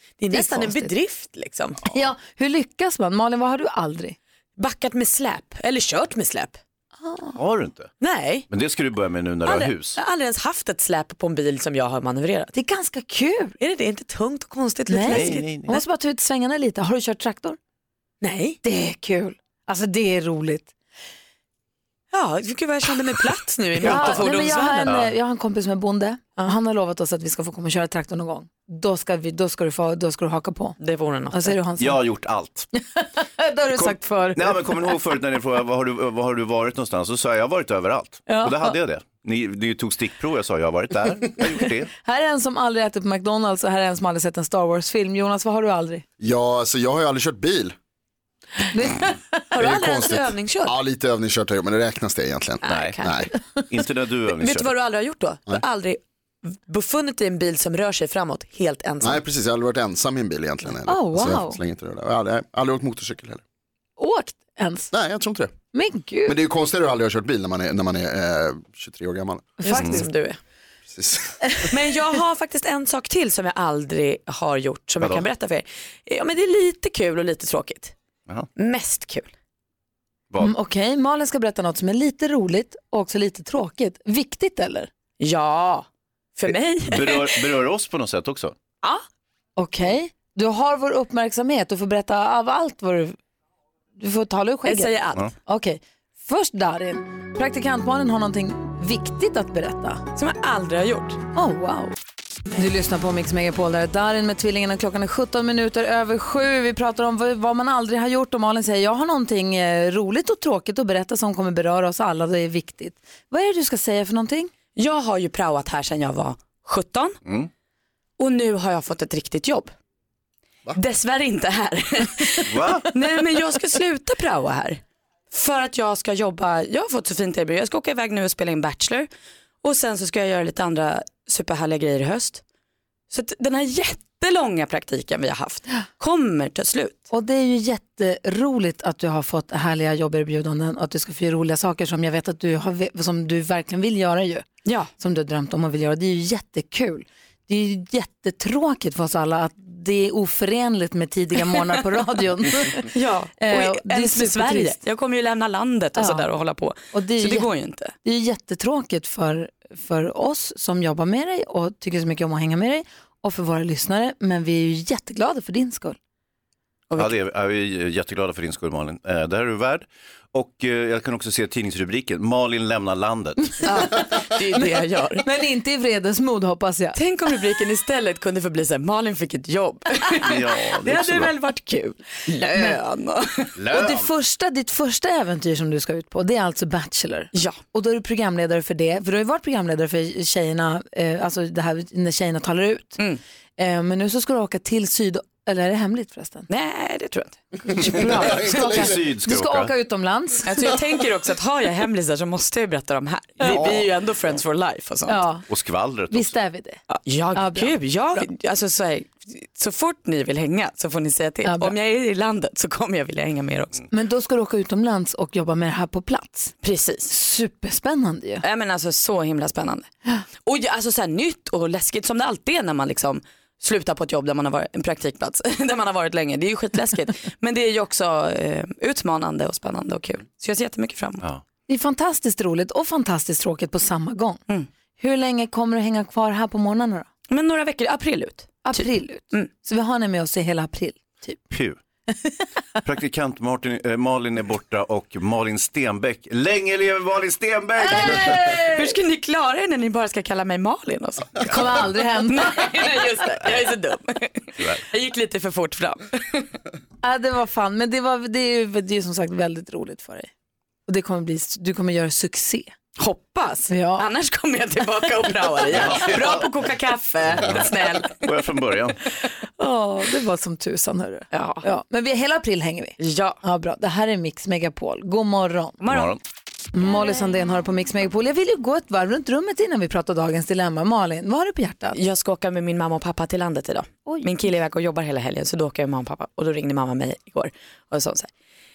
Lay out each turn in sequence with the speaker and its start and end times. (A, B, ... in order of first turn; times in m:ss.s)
0:00.2-0:01.8 A
0:00.3-0:00.9 B
0:01.9-0:04.2 B
0:04.6-0:06.6 A
0:07.0-0:07.4 B
0:07.4-0:07.9 C
0:08.0-0:08.5 A
0:08.5-0:10.0 C
0:09.5-0:12.5 A
0:12.5-0:13.6 B
0:13.6-0:15.8 A
0:14.9-0:17.6 B
0:15.1-0:15.7 C
0:18.2-0:18.6 A
0:18.6-0:20.7 B
0:22.1-0:25.0 A
0:23.8-0:24.2 C
0:23.8-0:30.8 B
0:24.8-0:25.1 C
0:30.8-0:31.6 A
0:31.3-0:32.0 B
0:31.8-0:32.7 C
0:32.8-0:35.0 B
0:33.8-0:41.9 C
0:38.3-0:38.8 B
0:42.0-0:46.0 B
0:46.2-0:47.7 D
0:48.7-0:49.1 B
0:49.5-0:50.8 A
0:49.6-0:53.3 D
0:52.6-0:53.3 A
0:52.7-0:53.0 C
0:53.7-0:54.7 C
0:54.4-0:56.0 A
0:56.5-0:59.2 A
0:59.0-1:03.4 D
1:00.9-1:01.6 B
1:04.0-1:04.9 B
1:04.9-1:05.5 D
1:05.7-1:06.4 B
1:06.3-1:09.9 D
1:09.6-1:10.0 B
1:09.6-1:10.4 A
1:09.8-1:10.0 C
1:10.9-1:11.4 D
1:11.7-1:18.0 A
1:15.0-1:15.3 C
1:18.6-1:19.3 A
1:20.4-1:24.9 B
1:25.2-1:27.5 A
1:26.8-1:28.6 C
1:29.6-1:33.2 B
1:34.0-1:34.9 B
1:34.6-1:35.2 A
1:35.5-1:40.0 B
1:40.2-1:41.2 A
1:41.3-1:41.9 B
1:42.6-1:54.5 B
1:54.8-1:57.2 A
1:58.2-1:59.7 A
2:00.8-2:04.8 A
2:02.5-2:02.9 C
2:05.3-2:09.1 A
2:09.6-2:12.4 A
2:13.1-2:17.0 A
2:17.1-2:24.5 B
2:24.6-2:24.9 A
2:25.0-2:32.9 B
2:32.8-2:37.9 A
2:33.4-2:34.8 B
2:36.0-2:36.2 B
2:36.9-2:37.5 B
2:38.0-2:46.0 B
2:47.0-2:53.7 C
2:53.7-2:55.2 A
2:55.2-2:57.0 B
2:57.0-3:03.5 A
3:00.2-3:01.3 C
3:03.6-3:04.1 C
3:03.7-3:13.0 B
3:13.6-3:16.5 B
3:16.5-3:18.8 A
3:17.7-3:20.7 B
3:18.3-3:19.7 C
3:20.5-3:25.2 A
3:23.4-3:23.7 B
3:23.4-3:23.8 C
3:25.1-3:25.4 B
3:25.5-3:26.3 C
3:26.1-3:26.8 B
3:26.9-3:33.8 A
3:27.4-3:28.2 B
3:31.4-3:31.7 B
3:33.9-3:36.5 B
3:36.6-3:37.1 A
3:37.1-3:38.4 B
3:38.4-3:39.9 A
3:40.4-3:51.2 A
3:51.7-3:54.4 B
3:55.0-3:57.1 B
3:57.3-3:59.5 A
3:58.6-4:01.4 B
4:01.5-4:01.8 C
4:02.8-4:08.4 C
4:07.8-4:08.9 B
4:08.1-4:16.5 A
4:11.4-4:12.7 B
4:17.0-4:20.3 B
4:20.9-4:22.7 B
4:23.0-4:28.2 A
4:23.7-4:24.0 B
4:25.7-4:26.4 C
4:27.4-4:27.7 C
4:28.2-4:29.0 C
4:29.6-4:35.8 B
4:31.3-4:31.6 A
4:33.0-4:33.4 A
4:35.8-4:36.1 A
4:35.9-4:36.2 C
4:36.7-4:42.0 B
4:42.0-4:48.3 A
4:44.1-4:44.5 B